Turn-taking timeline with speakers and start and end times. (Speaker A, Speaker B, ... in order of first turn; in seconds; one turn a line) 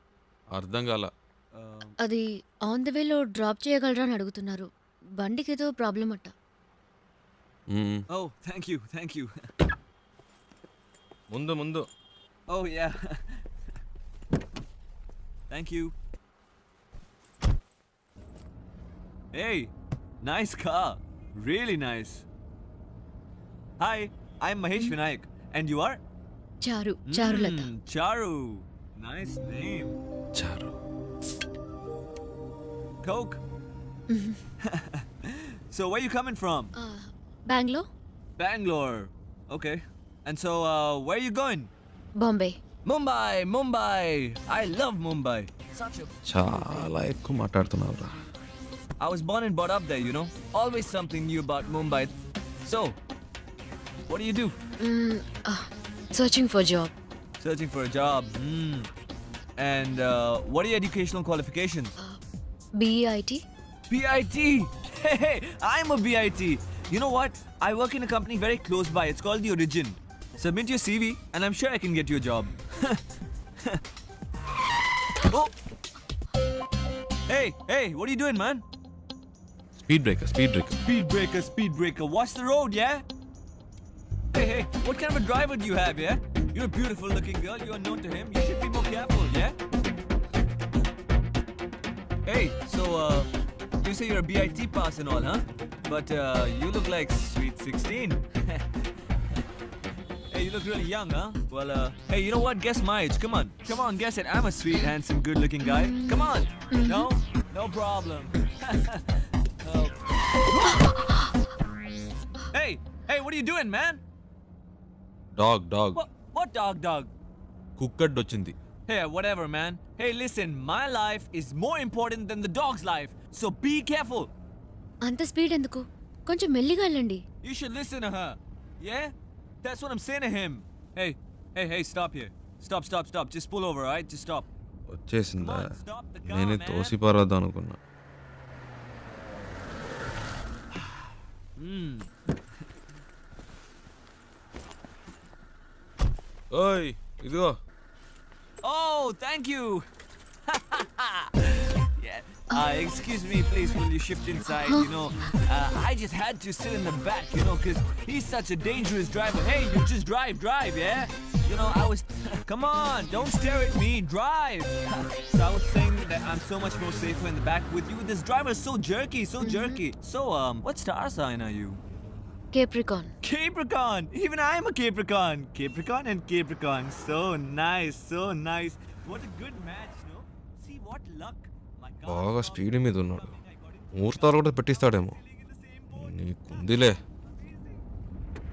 Speaker A: 0.5-1.1
Speaker B: 1.5-1.9
Speaker C: 2.0-4.7
Speaker C: 5.2-6.3
Speaker A: 7.7-8.1
Speaker B: 8.1-9.4
Speaker A: 11.3-11.9
Speaker B: 12.5-13.4
Speaker B: 15.5-15.9
Speaker B: 19.3-22.2
Speaker B: 23.8-26.0
Speaker C: 26.6-27.7
Speaker B: 27.1-30.0
Speaker A: 30.4-30.8
Speaker B: 33.0-33.4
Speaker C: 34.1-34.4
Speaker B: 34.6-36.7
Speaker C: 36.8-37.9
Speaker B: 38.4-41.7
Speaker C: 42.2-42.6
Speaker B: 42.9-46.9
Speaker A: 46.3-48.1
Speaker B: 49.0-53.0
Speaker B: 54.1-54.6
Speaker C: 54.8-56.9
Speaker B: 57.4-58.9
Speaker B: 59.6-62.0
Speaker C: 62.8-63.4
Speaker B: 63.9-73.0
Speaker B: 77.3-78.6
Speaker A: 79.8-80.8
Speaker B: 80.8-83.0
Speaker B: 84.3-89.6
Speaker B: 92.3-99.4
Speaker B: 100.3-110.8
Speaker C: 105.6-107.1
Speaker B: 112.5-114.0
Speaker A: 115.4-116.0
Speaker B: 116.0-117.1
Speaker A: 117.8-118.5
Speaker B: 118.9-124.3
Speaker C: 125.0-127.2
Speaker B: 127.4-129.1
Speaker B: 129.6-134.5
Speaker A: 134.9-135.7
Speaker B: 135.4-137.0
Speaker A: 136.3-137.8
Speaker B: 141.6-142.1
Speaker A: 146.5-147.6
Speaker B: 148.6-149.9
Speaker B: 150.5-171.8
Speaker C: 169.4-169.8
Speaker C: 172.5-173.1
Speaker B: 173.2-187.8
Speaker A: 182.1-183.3
Speaker A: 183.9-185.2
Speaker A: 185.9-187.0